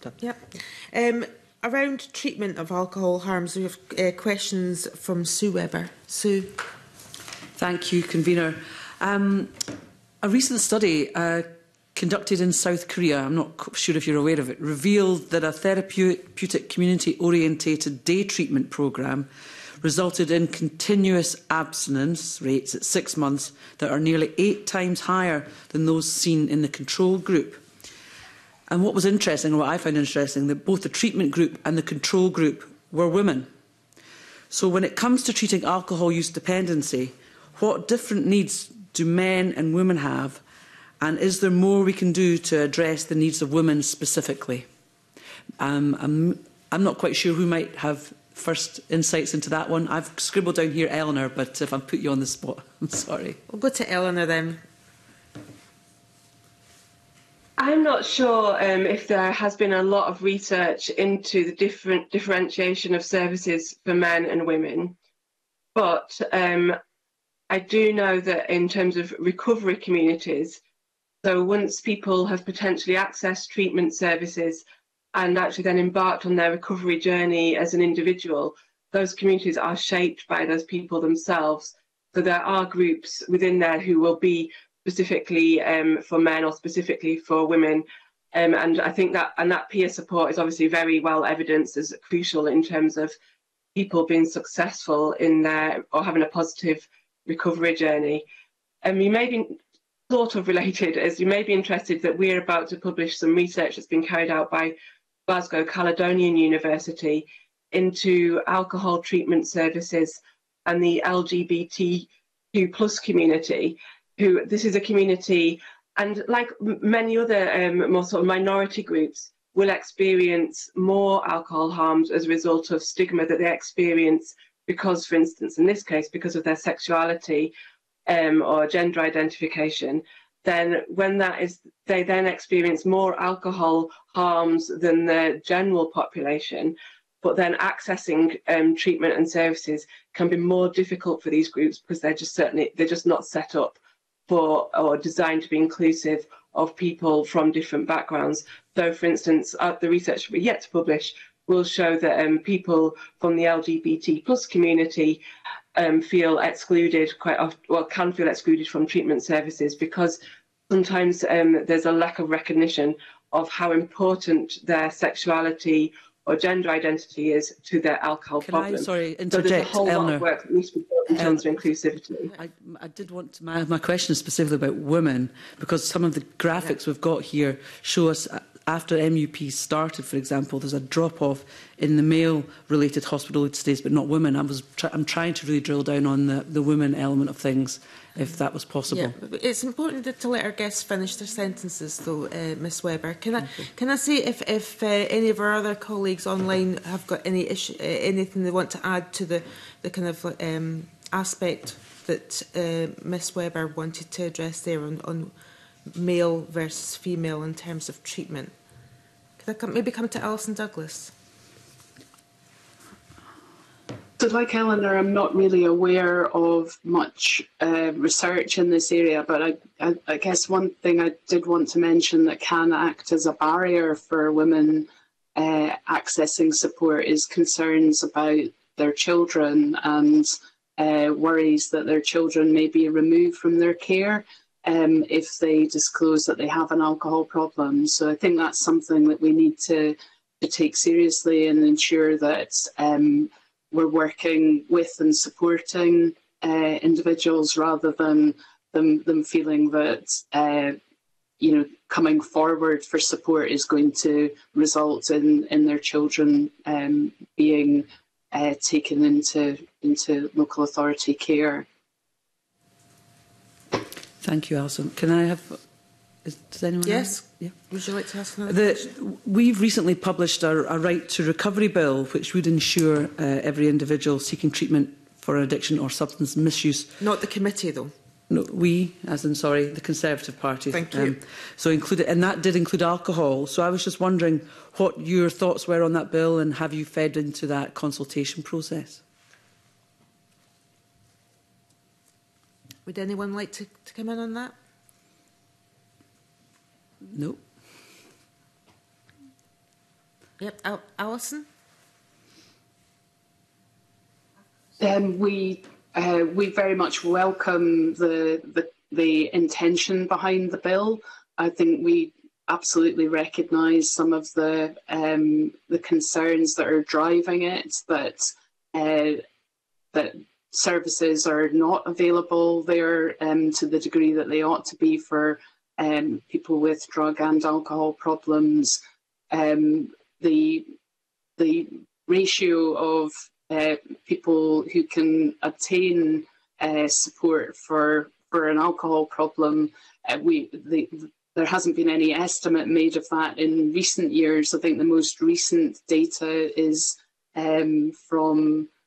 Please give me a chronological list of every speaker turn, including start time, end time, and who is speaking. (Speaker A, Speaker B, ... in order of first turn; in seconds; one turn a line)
Speaker A: 0.2-6.5
Speaker B: 7.6-9.6
Speaker B: 10.2-19.3
Speaker B: 19.8-27.6
Speaker B: 28.7-33.5
Speaker B: 34.5-40.4
Speaker B: 41.0-44.7
Speaker B: 45.6-53.4
Speaker A: 53.5-54.6
Speaker C: 57.6-65.0
Speaker C: 65.8-66.8
Speaker C: 67.5-70.6
Speaker C: 71.2-93.1
Speaker C: 93.8-98.3
Speaker C: 98.8-104.8
Speaker C: 105.3-127.5
Speaker C: 128.1-155.2
Speaker C: 155.8-172.3
Speaker B: 168.4-170.3
Speaker B: 171.1-171.4
Speaker B: 172.3-189.2
Speaker A: 188.9-205.3
Speaker A: 205.9-208.6
Speaker A: 209.4-211.1
Speaker D: 214.2-250.8
Speaker D: 251.4-261.7
Speaker B: 264.2-265.6
Speaker B: 266.2-267.3
Speaker A: 266.8-268.9
Speaker B: 268.5-276.9
Speaker A: 277.0-277.9
Speaker B: 278.3-289.0
Speaker A: 280.7-281.2
Speaker A: 292.9-294.6
Speaker B: 297.1-297.5
Speaker A: 300.4-301.5
Speaker D: 304.8-319.2
Speaker D: 319.9-328.8
Speaker D: 329.3-330.7
Speaker D: 331.4-348.7